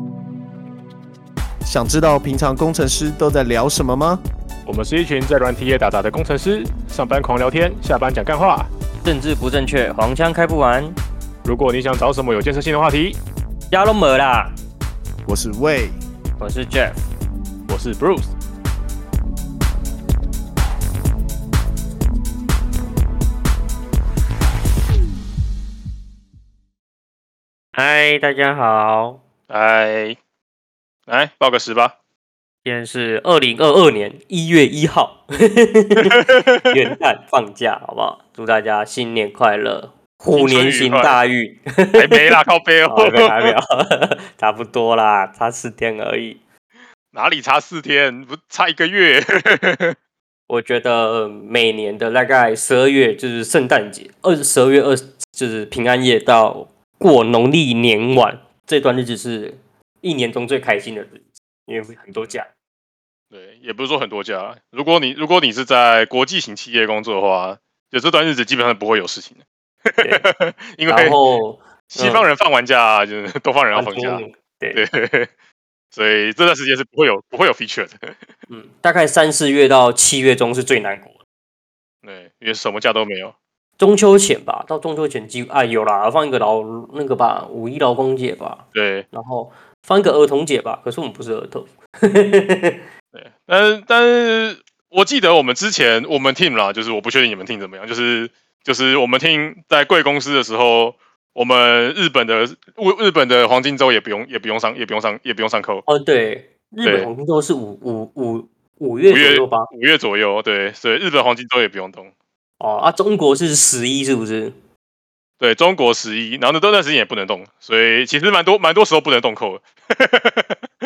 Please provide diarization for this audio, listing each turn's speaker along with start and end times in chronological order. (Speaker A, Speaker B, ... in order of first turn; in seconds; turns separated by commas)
Speaker A: 1.6-4.2, Speaker B: 4.7-8.7, Speaker C: 9.0-11.0, Speaker B: 11.4-13.2, Speaker C: 13.7-14.6, Speaker A: 15.2-16.0, Speaker C: 16.4-17.1, Speaker B: 17.7-18.3, Speaker C: 27.7-29.2, Speaker B: 29.5-30.2, Speaker B: 31.1-31.9, Speaker C: 32.6-42.3, Speaker B: 36.1-36.8, Speaker B: 40.4-41.2, Speaker B: 42.0-43.5, Speaker C: 42.9-46.4, Speaker B: 47.1-50.0, Speaker C: 50.5-62.5, Speaker B: 63.3-71.2, Speaker C: 70.0-70.3, Speaker C: 70.9-72.2, Speaker B: 71.9-74.2, Speaker C: 73.7-74.8, Speaker B: 74.7-75.3, Speaker B: 75.9-78.2, Speaker C: 78.5-81.2, Speaker B: 82.0-83.3, Speaker C: 83.8-92.9, Speaker B: 88.7-89.1, Speaker B: 93.1-105.9, Speaker C: 105.9-109.7, Speaker B: 109.1-112.1, Speaker C: 112.6-114.5, Speaker B: 115.4-120.6